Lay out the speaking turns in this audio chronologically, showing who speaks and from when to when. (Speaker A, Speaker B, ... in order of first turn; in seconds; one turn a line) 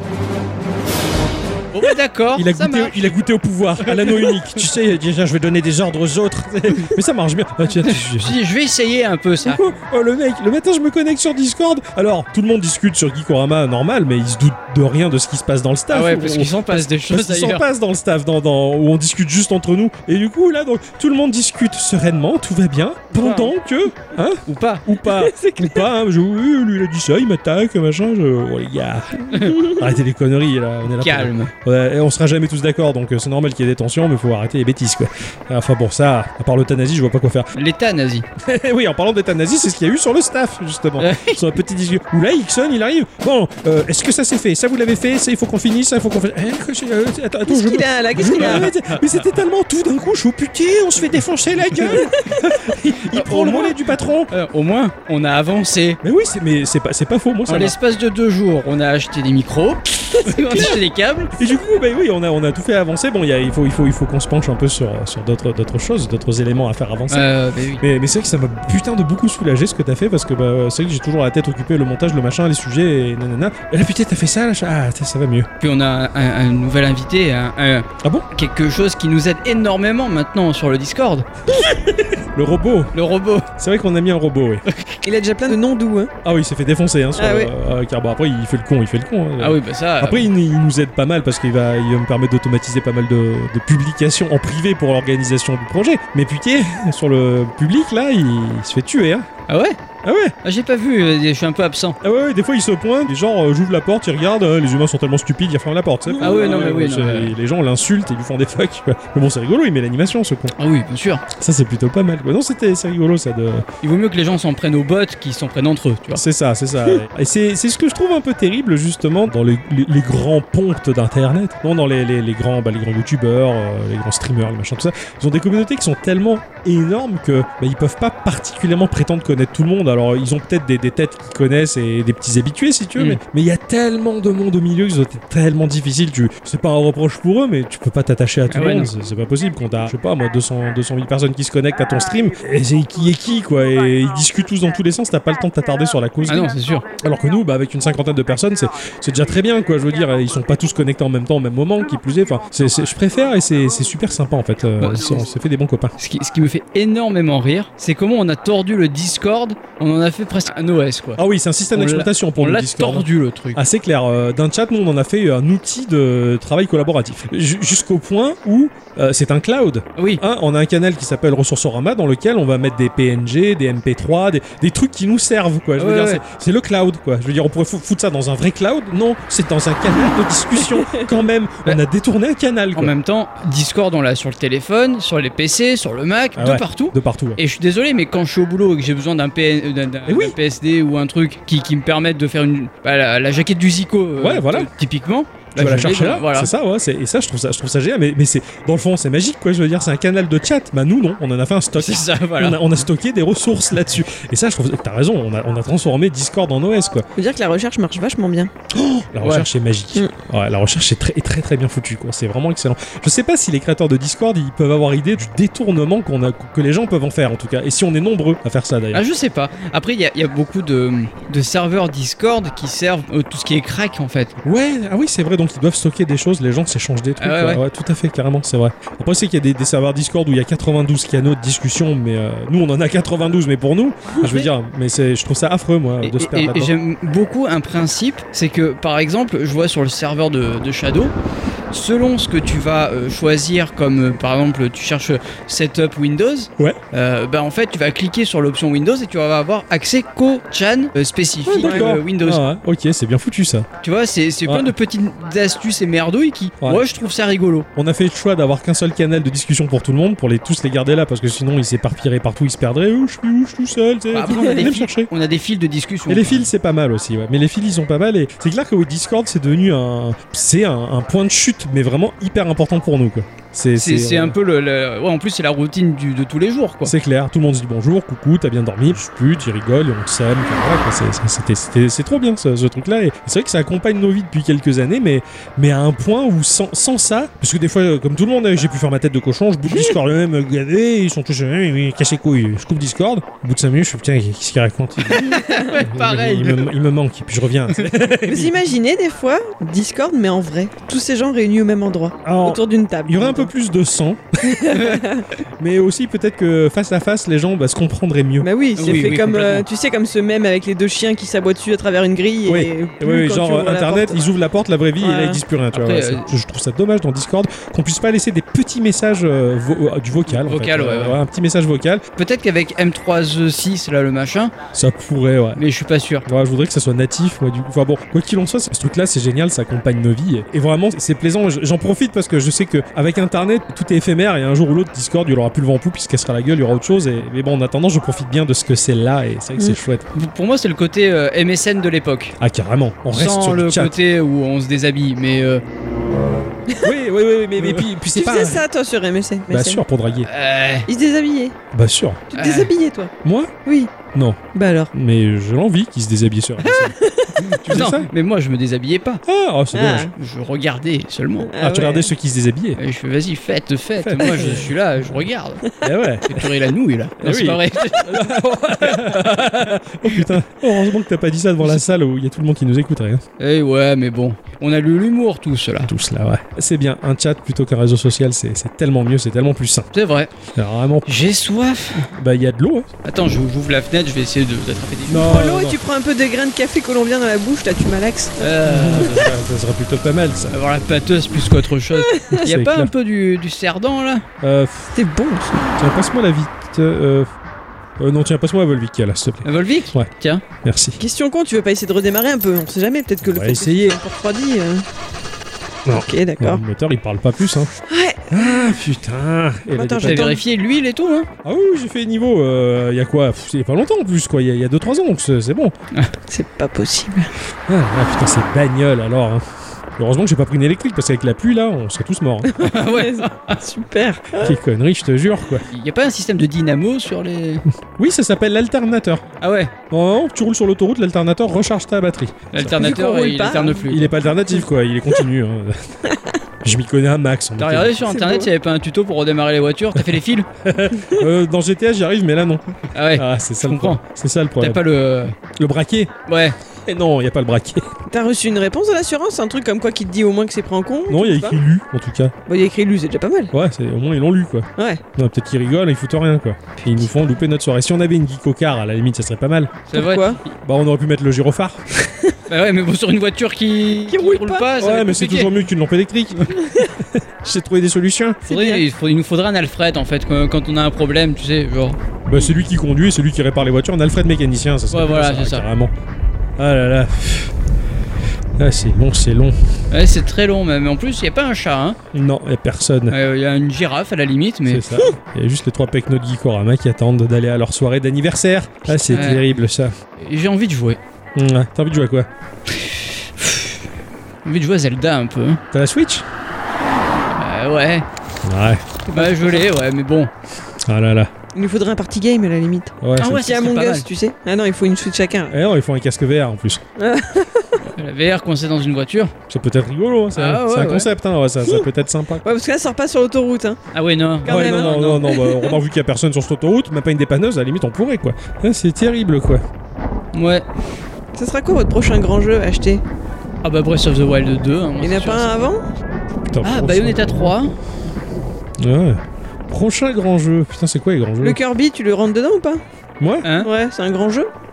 Speaker A: 1.7-3.1
Speaker B: 2.3-8.4
Speaker A: 3.8-4.4
Speaker A: 7.8-9.6
Speaker B: 9.4-37.5
Speaker A: 15.9-17.6
Speaker A: 23.1-23.5
Speaker A: 24.5-24.9
Speaker C: 25.1-25.9
Speaker A: 29.3-29.7
Speaker A: 31.0-31.5
Speaker A: 37.5-38.2
Speaker B: 38.4-54.3
Speaker A: 41.0-41.4
Speaker C: 47.5-48.7
Speaker A: 48.2-49.2
Speaker A: 51.7-52.1
Speaker C: 51.9-52.3
Speaker A: 53.1-56.0
Speaker B: 56.0-57.8
Speaker A: 57.5-61.3
Speaker B: 60.2-60.7
Speaker B: 61.4-75.5
Speaker A: 67.1-67.8
Speaker A: 75.6-81.7
Speaker B: 81.6-82.9
Speaker A: 82.9-83.5
Speaker B: 83.6-84.6
Speaker A: 84.7-85.0
Speaker C: 85.0-86.1
Speaker B: 86.2-99.3
Speaker C: 87.2-87.5
Speaker A: 89.4-90.3
Speaker A: 99.5-99.8
Speaker B: 100.0-100.3
Speaker A: 100.4-102.0
Speaker B: 102.0-110.5
Speaker A: 106.2-107.3
Speaker A: 110.6-111.2
Speaker B: 111.3-113.7
Speaker A: 113.8-116.2
Speaker B: 116.1-155.9
Speaker A: 138.5-138.9
Speaker A: 146.3-146.8
Speaker A: 154.8-155.2
Speaker A: 156.0-161.2
Speaker B: 161.2-182.9
Speaker A: 161.7-163.6
Speaker A: 169.9-170.2
Speaker A: 175.8-176.2
Speaker A: 182.7-196.5
Speaker B: 186.3-187.4
Speaker B: 190.1-190.3
Speaker B: 194.2-194.7
Speaker B: 195.6-207.1
Speaker A: 201.8-202.6
Speaker C: 207.2-208.5
Speaker B: 208.7-219.0
Speaker A: 209.2-209.5
Speaker A: 218.9-224.3
Speaker B: 224.4-236.7
Speaker A: 227.2-227.6
Speaker A: 236.0-241.1
Speaker A: 241.7-252.4
Speaker C: 251.5-251.9
Speaker B: 251.5-253.7
Speaker A: 253.8-257.7
Speaker B: 254.4-254.7
Speaker B: 257.8-265.1
Speaker A: 264.1-266.5
Speaker B: 266.1-274.4
Speaker A: 273.8-276.9
Speaker B: 276.8-298.6
Speaker A: 295.0-296.7
Speaker C: 295.2-295.7
Speaker C: 298.2-303.5
Speaker B: 302.2-304.8
Speaker C: 304.4-305.2
Speaker A: 304.7-305.0
Speaker B: 305.6-309.2
Speaker C: 308.4-314.3
Speaker A: 308.8-309.6
Speaker B: 312.4-322.0
Speaker C: 315.0-315.4
Speaker A: 315.7-316.3
Speaker A: 320.3-321.2
Speaker A: 322.2-324.5
Speaker B: 324.7-325.6
Speaker A: 325.6-326.3
Speaker B: 326.2-340.1
Speaker A: 340.1-342.4
Speaker B: 342.4-344.0
Speaker A: 343.1-345.6
Speaker B: 346.8-348.6
Speaker C: 348.1-349.8
Speaker B: 349.5-350.3
Speaker A: 350.2-350.9
Speaker C: 350.9-351.6
Speaker B: 351.7-352.3
Speaker C: 352.3-353.1
Speaker A: 352.3-352.7
Speaker B: 353.2-353.5
Speaker C: 353.6-353.9
Speaker B: 354.1-354.4
Speaker C: 354.5-354.9
Speaker B: 354.9-357.0
Speaker C: 356.6-357.6
Speaker A: 357.4-359.2
Speaker B: 357.6-358.1
Speaker B: 359.2-360.1
Speaker C: 359.7-360.1
Speaker A: 360.1-361.5
Speaker C: 361.4-362.1
Speaker B: 361.6-362.8
Speaker A: 362.8-369.3
Speaker B: 364.0-364.8
Speaker B: 365.8-366.5
Speaker B: 367.2-373.2
Speaker A: 370.0-370.4
Speaker A: 373.4-375.9
Speaker B: 375.8-379.9
Speaker A: 379.9-380.3
Speaker B: 380.5-381.1
Speaker A: 381.1-382.1
Speaker B: 382.1-382.9
Speaker A: 383.0-385.3
Speaker B: 385.1-385.8
Speaker C: 385.1-388.5
Speaker A: 388.4-389.3
Speaker B: 388.6-390.6
Speaker A: 390.5-394.2
Speaker C: 391.9-392.4
Speaker B: 392.3-392.9
Speaker B: 394.4-394.9
Speaker C: 394.9-395.7
Speaker B: 395.8-397.3
Speaker B: 398.0-400.1
Speaker A: 399.4-400.4
Speaker B: 400.6-401.0
Speaker C: 401.0-404.8
Speaker B: 403.2-404.0
Speaker B: 405.9-407.7
Speaker C: 405.9-406.6
Speaker C: 407.9-408.8
Speaker B: 408.3-410.4
Speaker C: 409.7-410.4
Speaker A: 410.0-411.3
Speaker B: 411.4-415.7
Speaker C: 416.3-417.3
Speaker B: 417.7-419.4
Speaker B: 420.0-422.7
Speaker C: 422.4-424.6
Speaker A: 422.6-423.6
Speaker B: 424.4-425.6
Speaker A: 425.7-427.6
Speaker B: 428.0-429.2
Speaker A: 429.4-429.7
Speaker B: 429.9-432.9
Speaker A: 432.5-434.1
Speaker C: 432.7-433.9
Speaker B: 433.9-435.9
Speaker C: 436.1-436.4
Speaker B: 436.6-438.0
Speaker A: 437.6-440.4
Speaker C: 438.0-438.5
Speaker B: 439.9-444.8
Speaker C: 441.0-441.2
Speaker A: 442.9-444.0
Speaker A: 444.6-445.4
Speaker B: 445.5-446.1
Speaker A: 446.3-446.6
Speaker B: 446.9-447.9
Speaker C: 448.1-451.6
Speaker B: 451.1-452.3
Speaker C: 452.4-453.5
Speaker B: 453.5-459.9
Speaker C: 454.8-455.0
Speaker A: 459.9-460.5
Speaker C: 459.9-460.4
Speaker B: 460.6-461.9
Speaker A: 462.5-465.6
Speaker C: 464.1-464.7
Speaker B: 464.8-468.4
Speaker C: 466.5-466.9
Speaker C: 468.5-468.8
Speaker A: 468.5-472.0
Speaker B: 472.2-475.9
Speaker A: 474.9-475.6
Speaker B: 476.6-477.5
Speaker B: 478.6-479.6
Speaker A: 479.9-482.0
Speaker B: 482.1-483.2
Speaker A: 483.1-485.0
Speaker B: 484.7-489.9
Speaker A: 488.9-489.5
Speaker A: 490.2-491.0
Speaker B: 491.4-492.3
Speaker A: 492.7-493.8
Speaker A: 494.4-495.6
Speaker B: 495.7-496.2
Speaker A: 497.4-498.1
Speaker B: 498.4-499.0
Speaker C: 499.1-499.7
Speaker A: 499.1-500.3
Speaker B: 500.9-501.3
Speaker C: 501.5-505.6
Speaker B: 503.0-503.5
Speaker A: 503.2-504.1
Speaker B: 505.5-506.8
Speaker C: 507.0-507.9
Speaker A: 507.8-509.3
Speaker B: 509.5-512.4
Speaker A: 510.4-511.1
Speaker C: 512.4-513.8
Speaker A: 513.9-515.3
Speaker C: 514.4-515.8
Speaker B: 514.4-519.6
Speaker A: 520.3-520.6
Speaker C: 521.4-523.0
Speaker A: 523.6-525.5
Speaker C: 525.0-525.8
Speaker B: 526.5-527.5
Speaker A: 526.6-527.7
Speaker B: 528.8-531.6
Speaker C: 531.4-532.8
Speaker B: 533.2-533.5
Speaker A: 533.4-533.7
Speaker C: 533.6-534.5